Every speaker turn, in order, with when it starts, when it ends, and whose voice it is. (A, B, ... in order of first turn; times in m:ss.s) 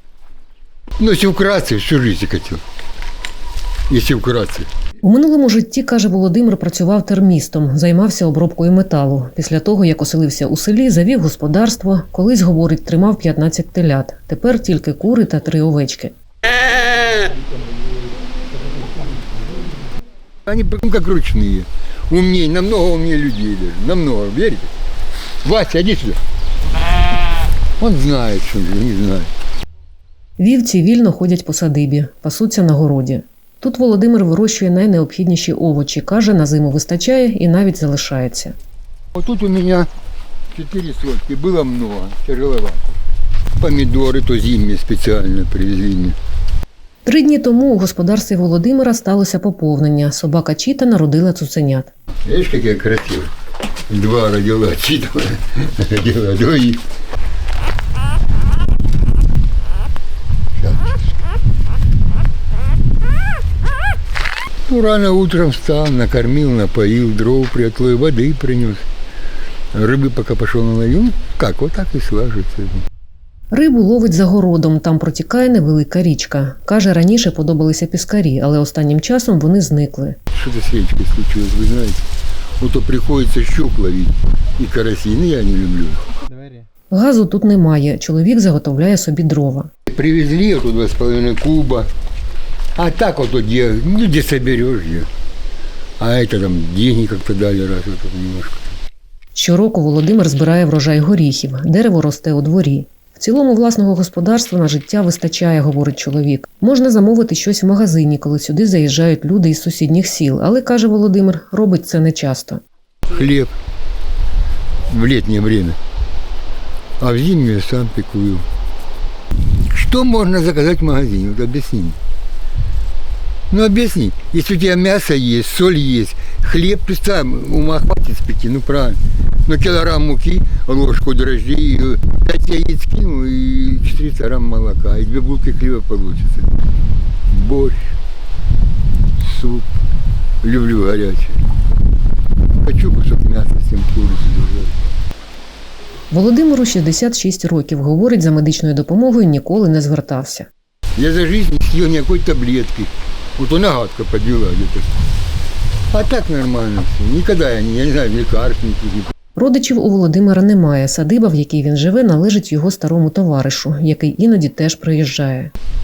0:01.0-0:02.6 A
0:03.9-0:04.7 A
0:05.0-0:16.1 B
0:20.5-0:24.7 A
0:25.4-0:26.2 A
0:27.8-0:29.3 A
0:30.4-0:38.6 B
0:39.2-0:39.9 A
0:40.5-0:43.0 A
0:43.6-0:46.2 A
0:47.1-0:51.9 B
0:52.3-0:53.3 A
0:53.9-0:56.8 A
1:00.6-1:01.0 A
1:04.7-1:08.8 A
1:09.7-1:12.8 A
1:13.5-1:20.2 B
1:20.3-1:22.0 A
1:22.6-1:26.0 A
1:26.9-1:29.7 B
1:29.9-1:31.9 A
1:32.8-1:35.1 A
1:36.0-1:38.7 A
1:39.4-1:52.6 B
1:53.1-1:53.5 A
1:54.9-1:55.8 A
1:57.0-1:58.5 A
1:59.6-2:02.0 A
2:03.5-2:16.5 A
2:17.3-2:18.0 A
2:19.2-2:19.7 A
2:20.4-2:21.4 A
2:22.6-2:24.9 A
2:26.1-2:30.5 B
2:31.0-2:34.9 A
2:35.9-2:39.1 A
2:39.4-2:45.5 B